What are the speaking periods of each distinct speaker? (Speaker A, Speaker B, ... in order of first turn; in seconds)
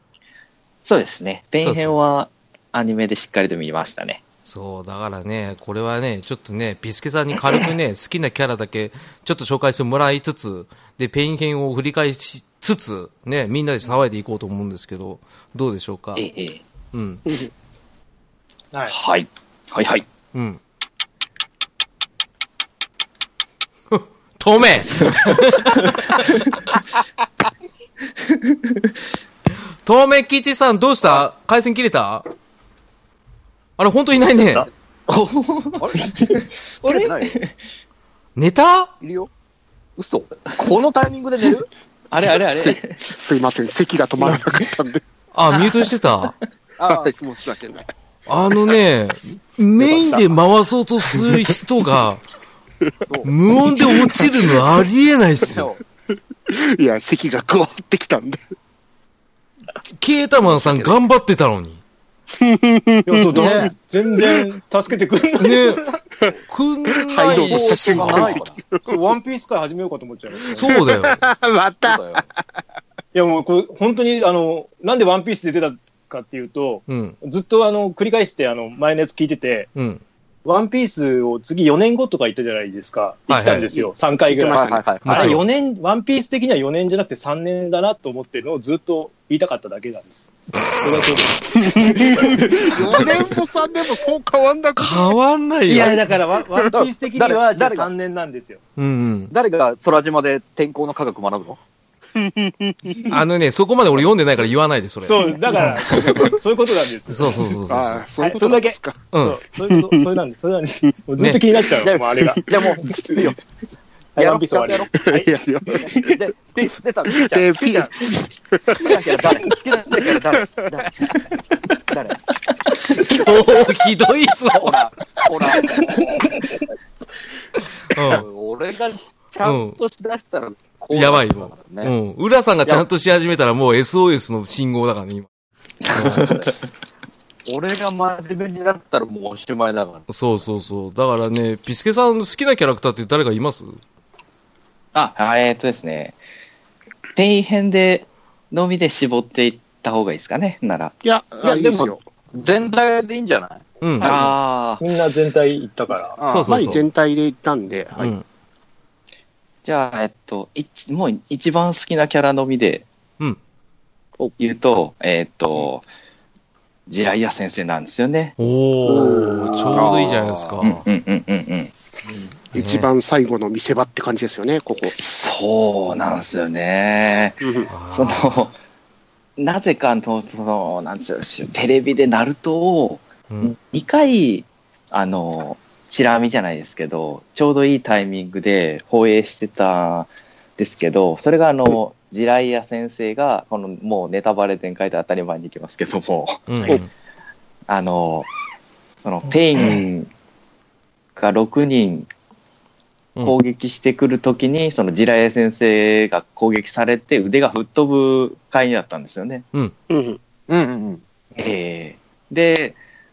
Speaker A: 0.8-4.2, 16.1-16.6, 18.9-20.1, 28.3-28.8, 35.1-37.5, 42.1-43.0, 135.8-136.5, 144.9-146.2, 147.2-150.9, 154.0-154.8, 159.6-162.8, 164.4-165.8, 166.9-168.3, 170.6-171.7, 174.9-178.6, 179.4-196.8, 197.7-198.3, 199.0-200.1, 201.2-202.1, 203.2-209.4, 211.3-212.8
Speaker B: 1.6-1.9, 4.5-16.2, 16.9-17.2, 20.3-20.6, 23.9-26.3, 29.8-32.2, 33.8-34.7, 38.4-38.9, 45.3-46.3, 48.3-52.2, 53.2-55.7, 60.0-61.8, 65.4-65.9, 66.5-68.4, 70.5-71.2, 76.9-77.2, 79.7-80.0, 83.3-83.7, 85.0-85.4, 90.6-91.2, 94.8-96.1, 98.8-99.3, 103.1-105.8, 107.1-108.0, 109.1-109.4, 111.2-111.4, 122.9-124.8, 127.9-128.2, 129.4-129.8, 130.9-135.3, 135.9-136.3, 140.1-143.7, 153.8-154.2, 156.3-156.8, 158.0-158.2, 168.4-170.8, 172.5-172.9, 177.7-178.4, 183.3-183.5, 196.5-196.9
Speaker C: 35.8-36.0, 36.8-37.4, 39.0-39.3, 40.0-41.7, 46.8-47.1, 55.4-55.8, 63.4-63.7, 67.1-68.6, 71.8-72.2, 84.5-85.4, 96.7-97.9, 99.3-101.6, 111.8-113.4, 114.2-115.1, 115.8-117.9, 118.7-121.0, 121.9-122.2, 124.5-126.1, 127.9-131.9, 136.1-136.4, 137.5-140.0, 151.4-153.6, 156.2-156.4, 170.0-170.4, 210.5-211.0
Speaker D: 42.5-45.0, 46.8-47.9, 52.9-54.3, 56.5-58.4, 60.4-60.9, 62.4-64.4, 66.9-69.0, 70.4-72.3, 83.7-84.8, 91.5-95.1, 96.5-96.8, 102.2-103.2, 107.7-109.0, 109.7-110.0, 112.5-113.3, 115.0-116.2, 117.1-119.4, 120.0-120.9, 151.0-152.0, 156.5-158.1, 168.8-169.9, 172.5-175.0, 177.4-177.7, 209.9-210.2
Speaker E: 63.0-66.0, 68.8-70.7, 73.1-79.7, 80.4-93.3, 95.7-98.6, 105.0-107.5, 108.2-112.5, 114.2-115.2, 154.8-156.2